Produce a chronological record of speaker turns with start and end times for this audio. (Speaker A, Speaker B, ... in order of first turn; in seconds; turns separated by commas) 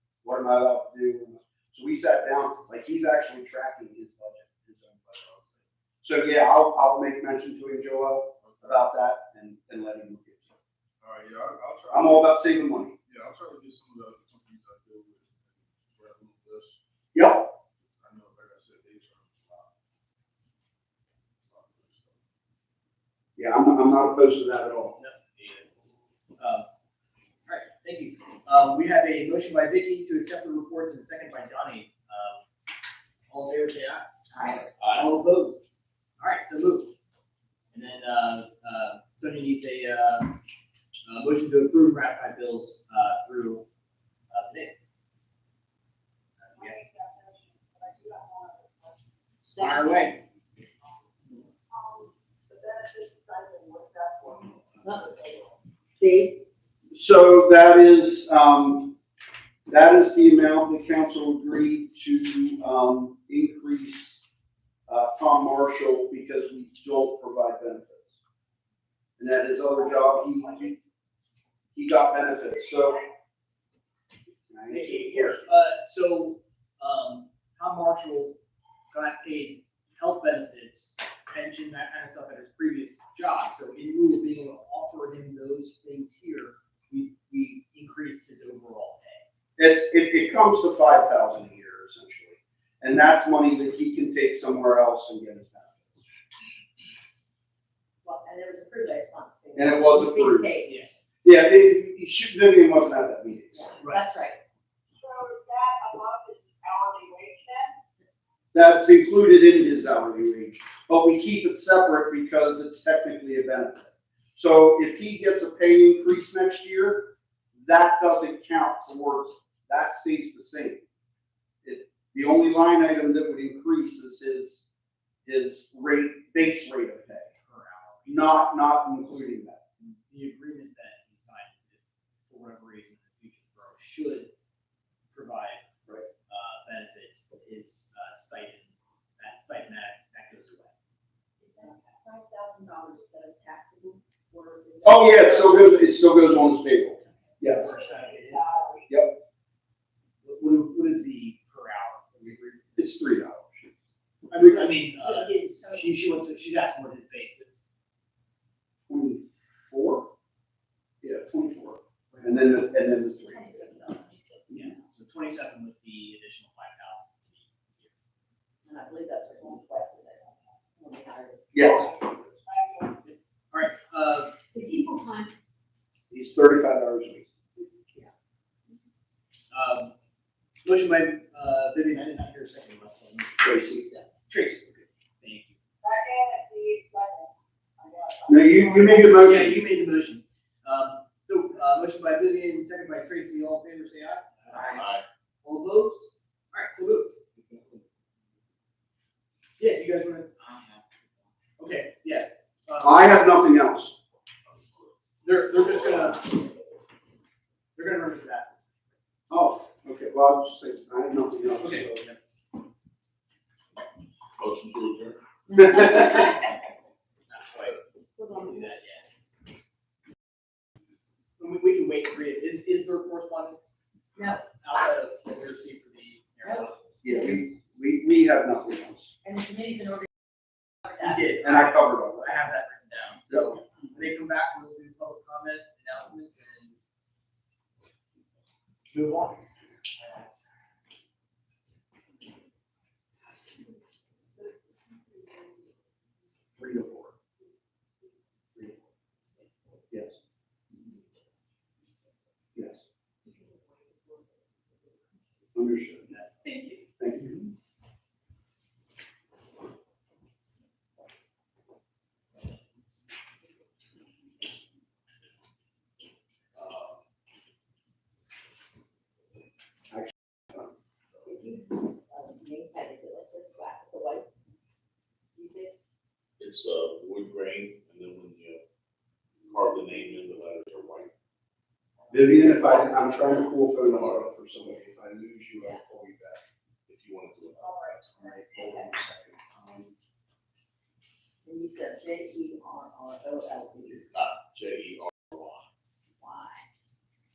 Speaker A: 0.2-10.5, Speaker B: 8.4-8.8, Speaker B: 11.0-12.5, Speaker A: 11.9-13.0, Speaker B: 13.1-16.8, Speaker A: 17.1-17.5, Speaker B: 18.0-19.7, Speaker B: 21.4-22.2, Speaker A: 23.4-24.9, Speaker C: 25.0-25.6, Speaker C: 26.4-26.7, Speaker C: 27.5-32.4, Speaker C: 33.3-35.6, Speaker D: 34.8-35.1, Speaker C: 36.2-36.9, Speaker C: 37.7-40.4, Speaker C: 41.1-43.6, Speaker C: 44.3-44.8, Speaker C: 46.5-46.8, Speaker E: 46.6-49.0, Speaker F: 49.5-50.1, Speaker C: 49.6-50.2, Speaker E: 51.7-55.5, Speaker F: 54.8-55.1, Speaker F: 56.0-56.4, Speaker A: 56.9-59.0, Speaker A: 59.7-64.2, Speaker A: 64.9-68.2, Speaker A: 69.2-70.7, Speaker A: 71.8-73.0, Speaker A: 74.5-75.4, Speaker C: 74.7-78.4, Speaker C: 78.9-89.2, Speaker A: 89.6-96.0, Speaker F: 98.0-100.7, Speaker A: 99.5-100.6, Speaker C: 100.7-100.9, Speaker A: 101.2-103.7, Speaker F: 103.5-104.4, Speaker E: 105.0-107.8, Speaker A: 108.5-120.8, Speaker A: 121.6-124.7, Speaker A: 125.2-127.3, Speaker C: 127.4-128.4, Speaker A: 128.1-129.6, Speaker C: 129.8-134.3, Speaker C: 135.1-135.6, Speaker C: 136.3-140.7, Speaker F: 141.4-145.7, Speaker A: 144.8-147.7, Speaker C: 147.3-148.8, Speaker E: 147.7-148.8, Speaker C: 150.2-153.0, Speaker A: 152.8-153.7, Speaker C: 154.3-157.6, Speaker F: 155.0-155.9, Speaker A: 158.9-160.1, Speaker A: 161.0-163.8, Speaker F: 163.0-164.7, Speaker C: 164.5-167.9, Speaker F: 168.6-171.9, Speaker A: 171.5-172.3, Speaker E: 172.5-172.9, Speaker C: 173.0-174.3, Speaker F: 174.5-175.3, Speaker A: 176.1-177.3, Speaker C: 179.5-179.9, Speaker C: 180.6-183.7, Speaker A: 183.4-183.8, Speaker C: 184.2-185.6, Speaker E: 185.8-188.9, Speaker A: 188.3-189.6, Speaker C: 188.8-194.8, Speaker D: 194.7-195.0, Speaker C: 195.4-197.2, Speaker C: 199.6-200.3, Speaker C: 201.6-203.3, Speaker A: 202.8-203.9, Speaker C: 205.2-206.4, Speaker C: 207.8-208.6, Speaker A: 209.3-212.0, Speaker C: 211.6-212.2, Speaker D: 214.4-216.0, Speaker C: 215.8-216.3, Speaker C: 217.3-219.1, Speaker F: 218.2-218.7, Speaker C: 221.4-223.8, Speaker F: 224.2-224.4, Speaker C: 224.3-226.9, Speaker F: 226.4-227.2, Speaker A: 227.0-229.1, Speaker F: 229.2-230.1, Speaker C: 230.9-236.8, Speaker A: 231.4-232.3, Speaker C: 238.9-239.4, Speaker C: 240.0-240.5, Speaker F: 244.2-245.7, Speaker A: 246.6-247.1, Speaker A: 249.9-250.2, Speaker A: 252.6-252.8, Speaker F: 253.2-255.3, Speaker A: 255.5-256.1, Speaker C: 256.1-256.6, Speaker A: 257.0-257.5, Speaker D: 266.6-267.0, Speaker F: 271.3-274.3, Speaker F: 275.4-275.7, Speaker D: 276.4-278.6, Speaker D: 279.5-281.1, Speaker A: 282.1-286.4, Speaker F: 282.6-283.3, Speaker D: 283.8-284.3, Speaker D: 286.9-288.8, Speaker E: 287.6-288.6, Speaker A: 288.3-289.9, Speaker F: 291.4-294.0, Speaker D: 294.1-295.7, Speaker F: 296.2-296.7